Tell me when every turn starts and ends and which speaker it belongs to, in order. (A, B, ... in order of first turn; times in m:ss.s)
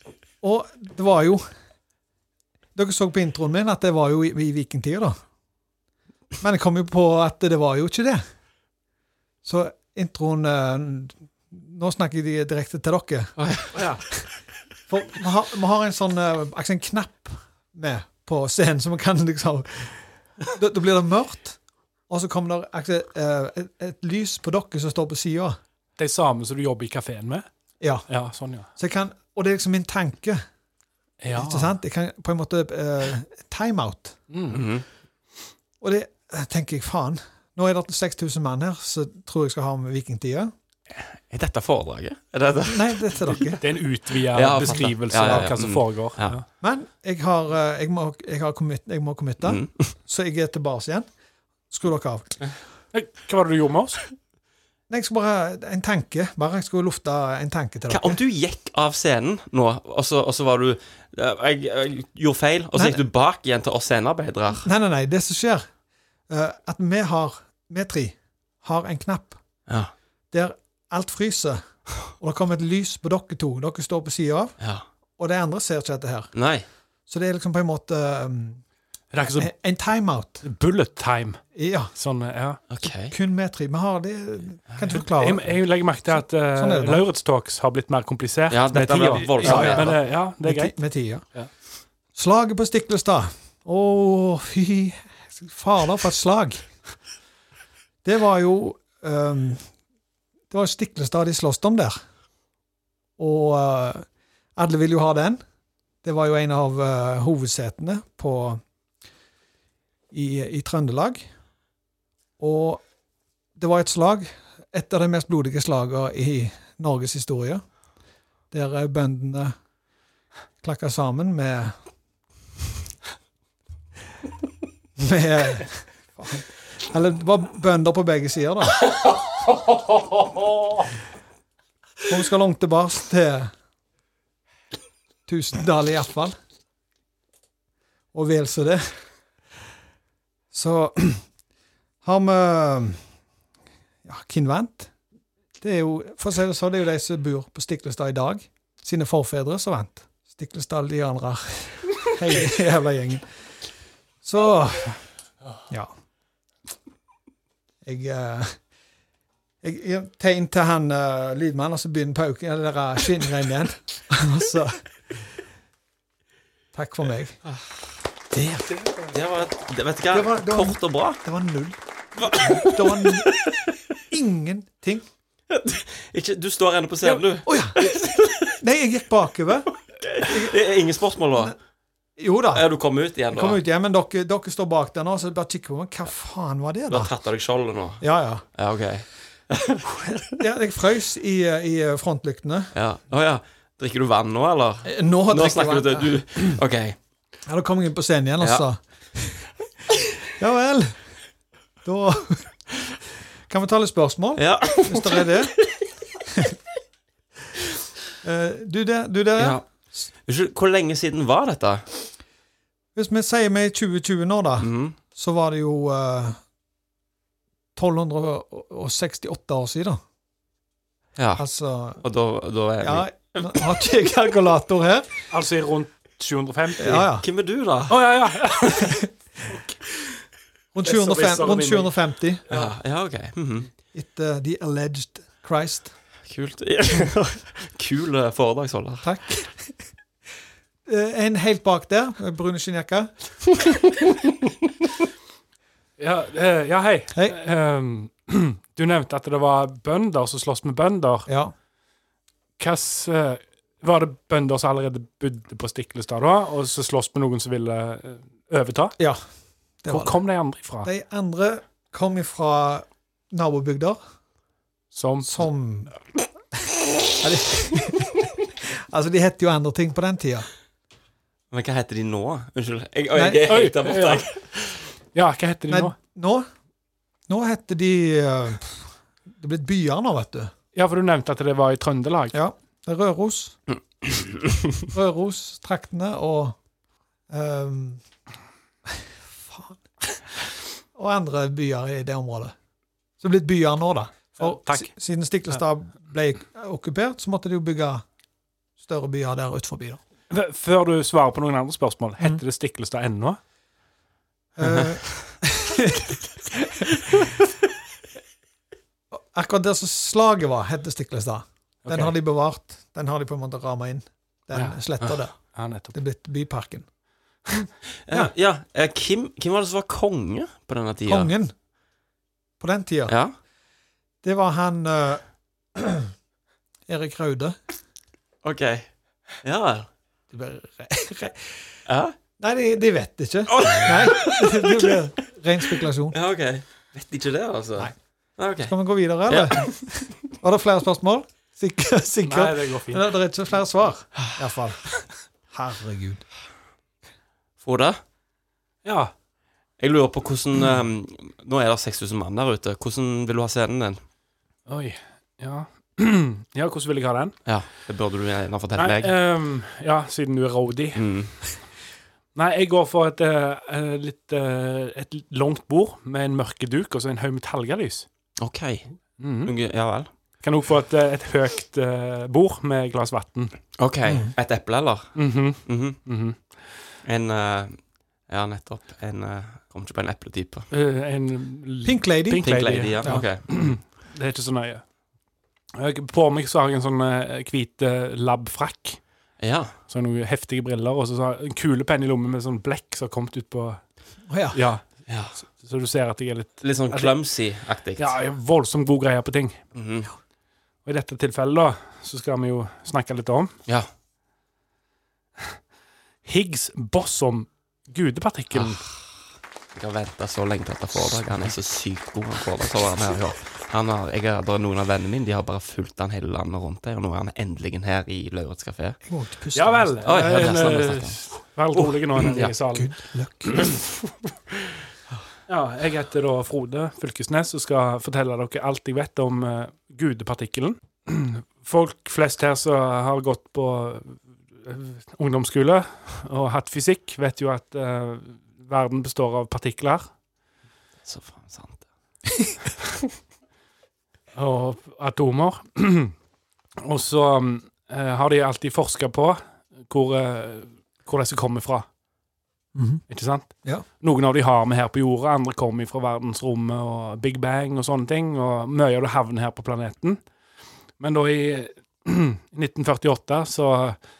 0:00.4-0:01.5 A
0:02.8-0:05.2 A
0:06.4-0:08.2 A
0:09.4-0:14.0 A
0:13.4-0:13.7 B
0:14.9-0:25.6 A
0:26.0-0:27.5 C
0:27.8-0:28.1 A
0:28.1-0:28.7 C
0:28.8-0:30.4 A
0:31.2-0:31.7 C
0:31.3-0:34.2 A
0:34.3-0:34.6 C
0:34.5-0:34.8 B
0:35.8-0:40.5 A
0:41.2-0:43.4 B
0:42.7-0:43.6 A
0:43.6-0:46.4 C
0:44.3-0:46.4 B
0:44.6-0:45.5 A
0:46.6-0:51.1 A
0:49.4-0:49.7 B
0:51.7-0:52.4 A
0:52.9-0:54.1 C
0:54.9-0:58.2 A
0:57.9-1:04.7 B
1:02.7-1:03.0 A
1:04.6-1:05.7 A
1:06.3-1:09.4 A
1:10.3-1:11.6 A
1:12.1-1:14.6 A
1:14.6-1:14.8 B
1:15.2-1:16.3 A
1:16.3-1:16.6 B
1:17.1-1:18.6 A
1:19.1-1:19.5 C
1:19.3-1:20.4 A
1:20.4-1:22.6 C
1:21.6-1:21.9 A
1:22.7-1:23.2 B
1:23.1-1:25.5 A
1:25.1-1:30.8 C
1:26.1-1:27.0 A
1:28.5-1:30.0 B
1:29.4-1:31.2 A
1:32.2-1:36.7 A
1:38.0-1:39.7 A
1:40.5-1:42.0 A
1:43.2-1:44.0 A
1:44.6-1:45.4 A
1:46.0-1:48.6 A
1:50.1-1:51.3 A
1:52.4-1:52.8 A
1:53.6-1:57.6 A
1:58.5-1:59.6 A
2:00.6-2:01.8 A
2:05.0-2:08.9 A
2:12.1-2:13.5 A
2:15.3-2:16.4 A
2:18.1-2:18.9 A
2:20.5-2:21.2 A
2:22.0-2:23.0 A
2:24.0-2:24.9 A
2:25.6-2:33.2 A
2:34.2-2:35.0 A
2:37.8-2:38.6 A
2:39.6-2:44.8 A
2:46.7-2:47.4 A
2:48.3-2:49.1 A
2:49.1-2:51.2 B
2:50.1-2:51.8 A
2:52.2-2:53.8 B
2:52.3-2:53.4 A
2:54.1-2:55.1 A
2:55.5-2:58.5 B
2:57.4-2:57.9 A
2:58.5-2:59.7 A
3:00.0-3:01.5 B
3:00.2-3:00.6 A
3:02.2-3:02.7 A
3:02.5-3:03.6 B
3:03.3-3:07.1 A
3:06.9-3:08.0 B
3:08.0-3:08.4 A
3:08.5-3:10.1 B
3:10.3-3:12.7 A
3:12.7-3:17.0 B
3:14.8-3:16.6 A
3:17.5-3:19.5 A
3:20.2-3:21.1 A
3:21.8-3:22.5 A
3:23.5-3:25.6 A
3:24.4-3:25.8 B
3:26.3-3:26.6 A
3:28.2-3:30.0 A
3:29.4-3:29.6 B
3:30.2-3:31.9 B
3:33.0-3:36.4 A
3:34.6-3:35.0 B
3:37.8-3:40.0 A
3:41.2-3:41.4 B
3:41.4-3:42.0 A
3:42.0-3:43.6 B
3:42.8-3:45.1 A
3:45.3-3:47.1 C
3:46.8-3:47.3 A
3:47.2-3:48.0 B
3:47.9-3:49.7 C
3:50.7-3:52.4 A
3:50.8-3:51.9 C
3:52.5-3:52.7 C
3:52.5-3:53.7 B
3:53.9-3:56.0 A
3:56.3-3:59.1 B
3:59.0-3:59.8 A
4:00.9-4:03.1 A
4:06.0-4:11.3 C
4:11.3-4:11.5 A
4:12.6-4:19.0 C
4:19.8-4:20.2 A
4:19.9-4:20.9 C
4:20.8-4:24.0 A
4:24.9-4:25.3 C
4:25.2-4:25.9 A
4:27.2-4:30.5 A
4:31.5-4:34.8 B
4:33.1-4:33.4 A
4:33.5-4:34.3 C
4:35.1-4:36.0 C
4:35.7-4:36.5 A
4:37.3-4:40.5 A
4:40.8-4:42.4 C
4:42.3-4:43.6 A
4:44.9-4:46.6 A
4:47.3-4:48.0 A
4:48.9-4:49.8 A
4:51.0-4:52.6 A
4:53.2-4:58.0 A
4:54.4-4:54.9 C
4:58.8-5:00.0 A
5:00.3-5:03.4 C
5:04.6-5:07.3 A
5:09.1-5:15.4 A
5:11.8-5:12.1 C
5:15.3-5:16.0 C
5:15.9-5:16.9 A
5:18.1-5:21.3 B
5:21.1-5:21.5 A
5:22.6-5:23.1 A
5:23.1-5:23.3 B
5:24.2-5:25.2 A
5:25.8-5:26.1 A
5:26.9-5:27.6 A
5:28.4-5:28.9 B
5:29.4-5:29.9 B
5:30.3-5:31.6 A
5:31.9-5:32.2 B
5:32.4-5:36.2 A
5:33.5-5:35.0 B
5:36.1-5:38.7 B
5:38.6-5:46.2 A
5:39.3-5:39.7 B
5:42.2-5:43.1 C
5:47.6-5:48.0 B
5:48.8-5:49.1 C
5:49.8-5:54.0 B
5:54.7-5:57.4 C
5:57.5-5:59.1 B
5:58.8-6:01.0 C
6:01.0-6:01.4 B
6:02.4-6:08.1 C
6:08.4-6:08.9 B
6:09.2-6:09.5 C
6:09.4-6:10.1 B
6:10.4-6:13.6 C
6:13.8-6:15.1 B
6:14.1-6:14.3 A
6:15.2-6:16.4 C
6:15.6-6:16.0 B
6:17.0-6:20.7 B
6:20.7-6:24.8 C
6:21.8-6:22.5 A
6:22.4-6:23.4 B
6:25.8-6:29.0 C
6:29.4-6:29.7 B
6:29.9-6:33.8 C
6:34.3-6:34.6 A
6:34.5-6:34.8 C
6:35.1-6:35.4 B
6:35.5-6:37.2 C
6:36.6-6:38.1 B
6:38.0-6:39.6 C
6:39.7-6:40.1 B
6:40.8-6:43.5 C
6:46.2-6:48.8 C
6:48.5-6:48.8 B
6:49.8-6:59.0 B
6:59.0-7:00.0 A
6:59.6-7:02.9 C
7:00.0-7:01.2 B
7:01.8-7:02.5 B
7:02.7-7:03.7 A
7:05.5-7:20.1 C
7:21.1-7:21.8 B
7:24.4-7:26.1 C
7:26.8-7:31.9 C
7:32.8-7:33.0 A
7:33.1-7:40.2 C
7:41.0-7:44.0 C